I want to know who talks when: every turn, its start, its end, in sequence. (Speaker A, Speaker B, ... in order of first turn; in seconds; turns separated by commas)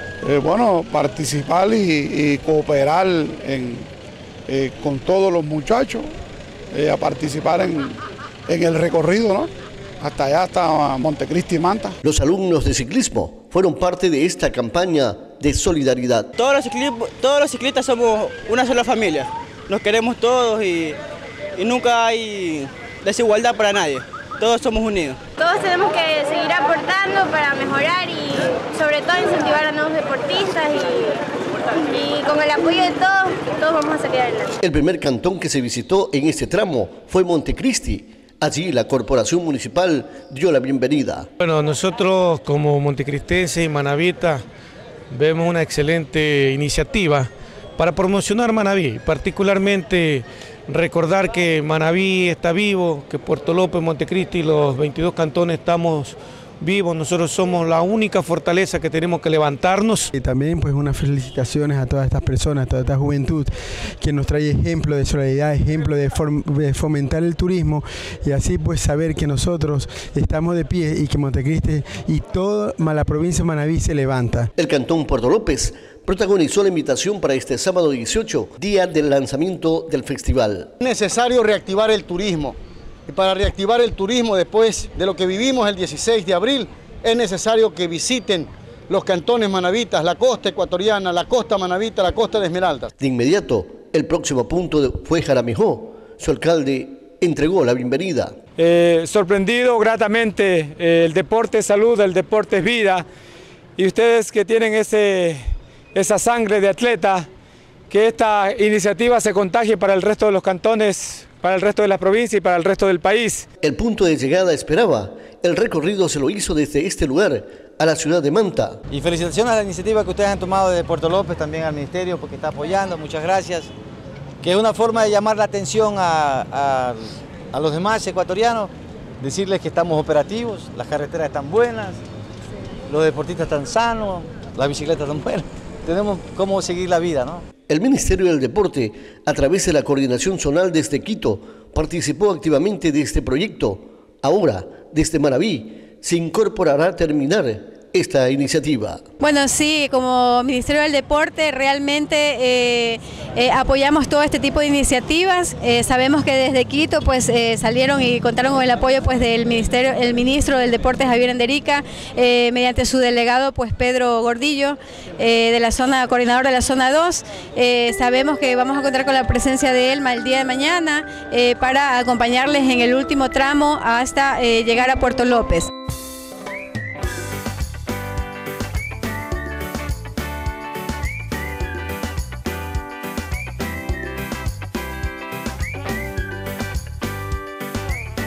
Speaker A: 0.2-3.9, Speaker A: 4.5-6.1, Speaker A: 6.7-8.0, Speaker A: 8.5-9.5, Speaker A: 10.0-12.0, Speaker B: 12.0-16.3, Speaker C: 16.4-21.0, Speaker C: 21.6-25.2, Speaker D: 25.4-31.2, Speaker D: 31.8-34.5, Speaker B: 34.6-41.3, Speaker E: 41.4-44.4, Speaker E: 45.1-60.1, Speaker F: 60.1-63.5, Speaker F: 64.0-74.5, Speaker B: 74.6-80.7, Speaker G: 80.8-82.6, Speaker G: 83.1-92.9, Speaker B: 93.0-98.3, Speaker H: 98.6-103.0, Speaker H: 103.8-105.4, Speaker H: 106.0-107.3, Speaker H: 107.9-113.5, Speaker B: 113.6-118.8, Speaker I: 118.9-123.7, Speaker I: 124.4-132.0, Speaker I: 132.9-137.4, Speaker B: 137.7-149.0, Speaker J: 149.2-175.7